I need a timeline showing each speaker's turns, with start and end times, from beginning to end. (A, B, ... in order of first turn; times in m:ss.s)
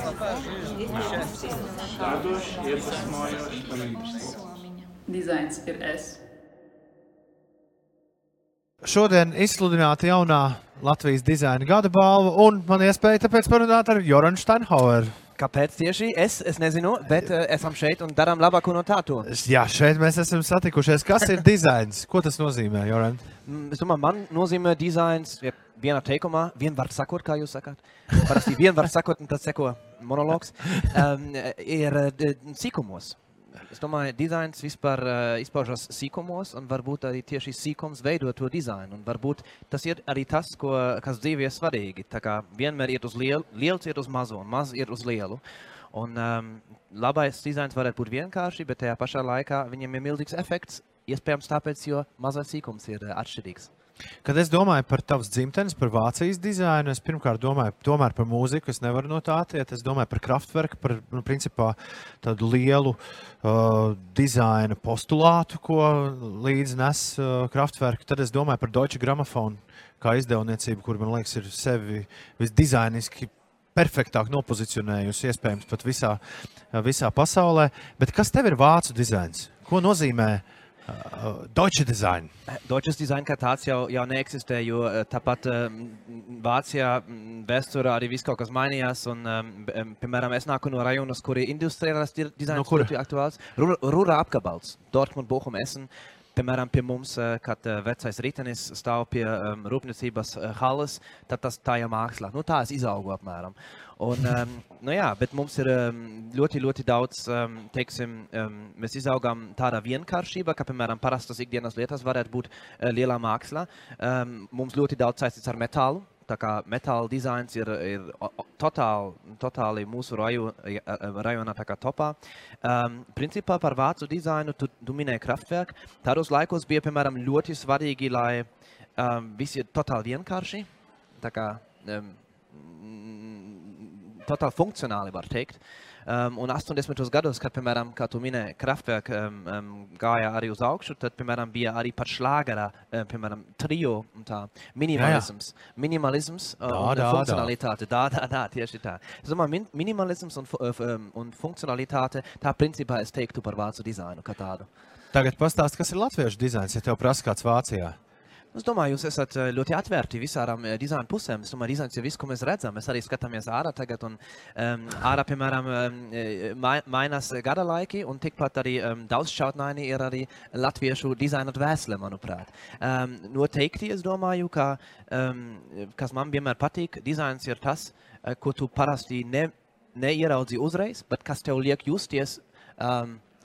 0:02.1-0:04.3 A
0:05.0-0:06.2 A
0:08.8-0:15.2 B
0:15.4-0:19.3 C
0:19.2-0:23.3 B
0:23.4-0:45.4 C
0:45.9-0:53.7 C
0:54.2-1:22.3 B
1:22.5-2:10.7 C
1:32.5-1:32.9 B
2:11.2-2:34.7 C
2:24.9-2:25.3 B
2:26.6-2:27.5 B
2:35.1-2:38.0 B
2:38.5-3:03.2 C